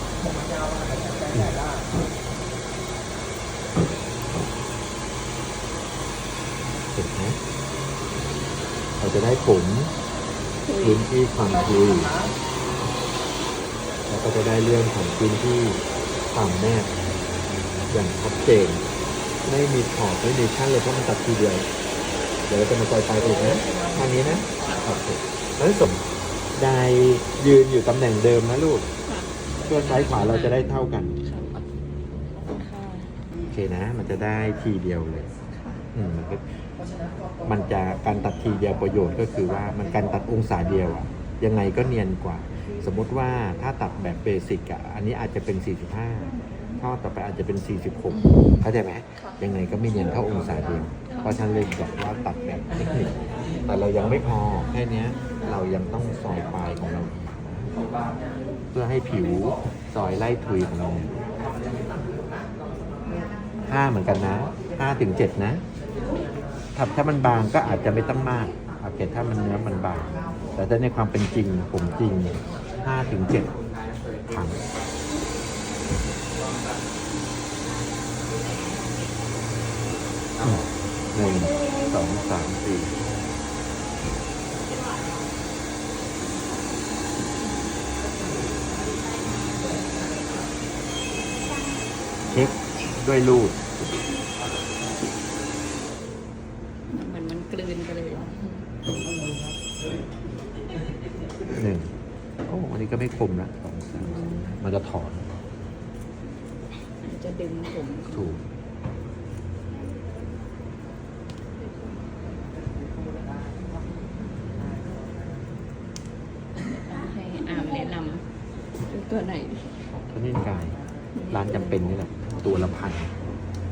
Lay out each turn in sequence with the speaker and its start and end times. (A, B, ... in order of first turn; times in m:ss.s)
0:00.2-0:01.9 A
0:06.9-0:07.4 B
0:09.0-0:09.9 B
0:10.6-0:11.0 C
0:10.8-0:12.1 B
0:11.4-0:12.4 A
0:14.1-0:15.8 B
0:16.3-0:16.9 B
0:17.9-0:18.8 B
0:19.4-0:21.6 B
0:22.5-0:26.0 B
0:23.1-0:25.0 A
0:26.5-0:28.9 B
0:29.6-0:30.4 A
0:29.7-0:31.1 B
0:30.0-0:30.5 C
0:31.2-0:31.6 C
0:32.6-0:33.1 C
0:33.5-0:35.3 B
0:35.5-0:35.8 C
0:35.9-0:36.4 B
0:36.8-0:41.0 A
0:37.4-0:53.1 B
0:48.1-0:48.6 C
0:50.0-0:51.0 A
0:53.6-0:57.7 B
0:57.8-0:58.4 A
0:58.7-1:01.1 B
0:59.1-0:59.6 A
1:00.1-1:03.4 A
1:03.6-1:05.6 B
1:04.1-1:04.6 A
1:05.8-1:06.6 A
1:06.7-1:13.5 B
1:11.8-1:12.8 A
1:14.3-1:14.6 B
1:20.4-1:22.9 B
1:27.4-1:27.7 C
1:32.3-1:33.6 B
1:36.9-1:38.6 C
1:41.5-1:41.9 B
1:42.5-1:45.3 B
1:44.0-1:44.6 C
1:47.0-1:48.3 C
1:48.1-1:48.4 B
1:56.8-1:58.2 C
1:58.9-1:59.7 C
2:00.1-2:00.8 B
2:01.1-2:01.9 C
2:01.3-2:03.1 B